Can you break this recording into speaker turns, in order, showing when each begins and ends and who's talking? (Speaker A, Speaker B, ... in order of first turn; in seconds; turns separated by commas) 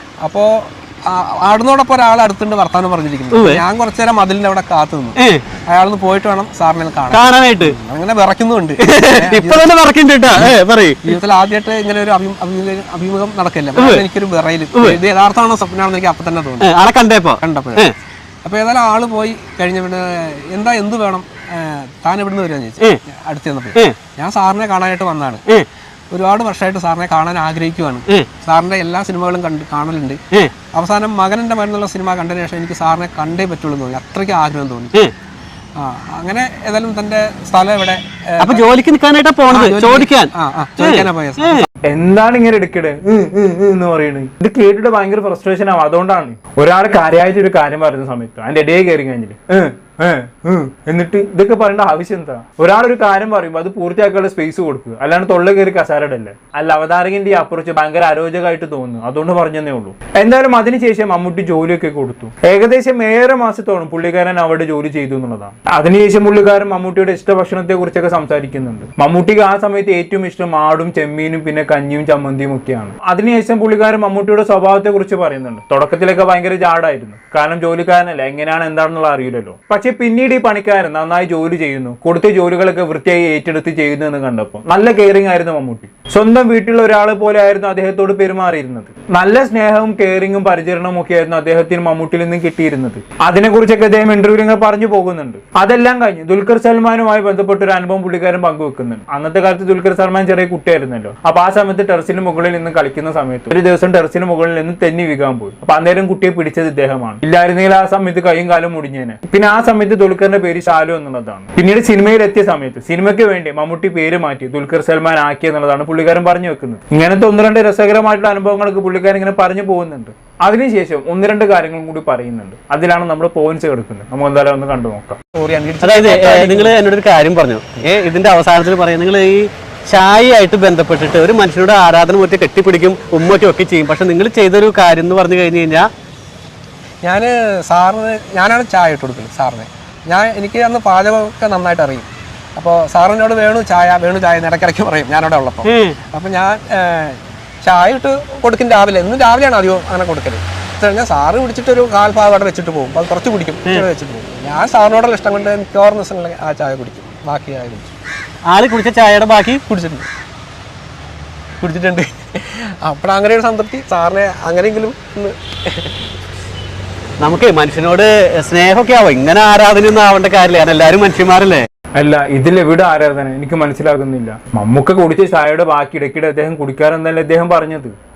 Speaker A: 0.2-5.2, Speaker B: 3.3-3.6, Speaker B: 5.2-5.4, Speaker A: 5.7-9.7, Speaker B: 7.1-7.8, Speaker B: 8.8-11.2, Speaker A: 11.1-16.7, Speaker B: 13.8-14.0, Speaker B: 14.7-15.0, Speaker B: 16.6-17.9, Speaker A: 17.4-17.9, Speaker A: 18.4-25.4, Speaker A: 26.1-30.2, Speaker A: 30.7-35.0, Speaker A: 35.8-38.7, Speaker B: 38.4-41.7, Speaker A: 39.5-41.7, Speaker C: 41.8-125.2, Speaker A: 125.3-126.8, Speaker B: 125.8-135.9, Speaker A: 137.0-157.9, Speaker B: 145.7-146.0, Speaker B: 158.5-159.6, Speaker A: 159.7-160.1, Speaker A: 161.6-165.9, Speaker B: 167.2-171.7, Speaker C: 172.0-177.9